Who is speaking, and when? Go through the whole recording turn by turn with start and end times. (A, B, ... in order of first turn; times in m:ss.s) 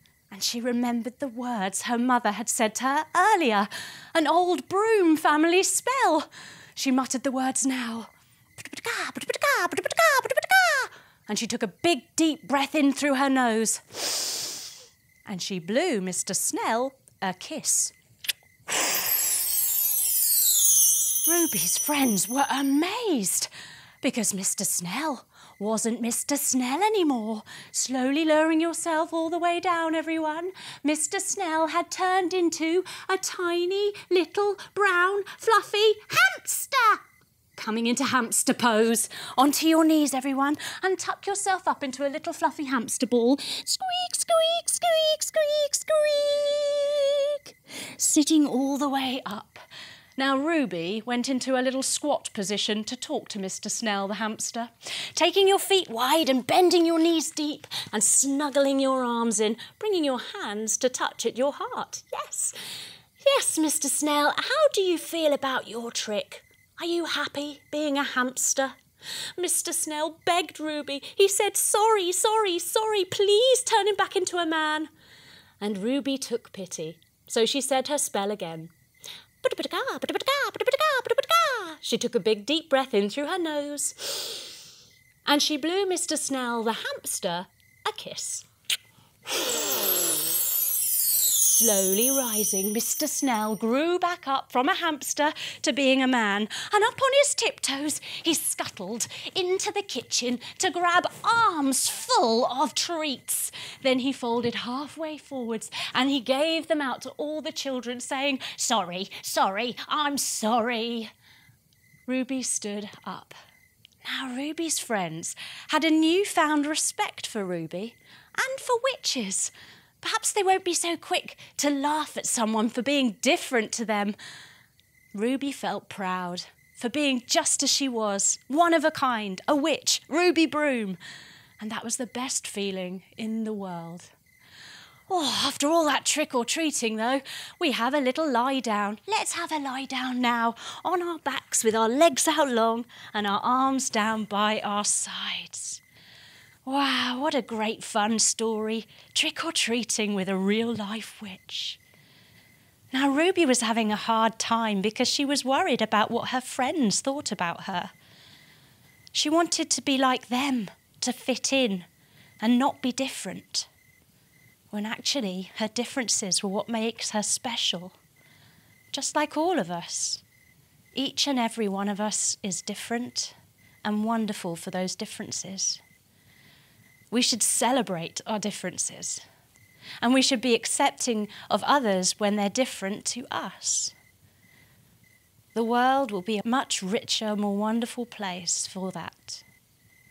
0:00.3-0:14.6 A
0:15.2-0:17.9 A
0:21.2-0:23.5 A
0:24.0-0:37.0 A
0:37.6-0:49.6 A
0:50.2-1:02.5 A
1:03.2-1:08.8 A
1:09.4-1:14.9 A
1:15.6-1:18.7 A
1:19.4-1:24.5 A
1:25.2-1:28.4 A
1:29.3-1:29.6 A
1:31.4-1:51.1 A
1:52.1-1:53.3 A
1:54.0-2:04.2 A
2:05.1-2:11.0 A
2:11.6-2:14.1 A
2:15.1-2:25.8 A
2:26.6-2:31.8 A
2:32.9-2:37.9 A
2:39.1-2:41.9 A
2:42.4-2:43.7 A
2:44.7-2:48.0 A
2:48.9-2:50.2 A
2:50.9-2:55.8 A
2:57.1-2:59.2 A
3:00.0-3:04.0 A
3:05.5-3:09.4 A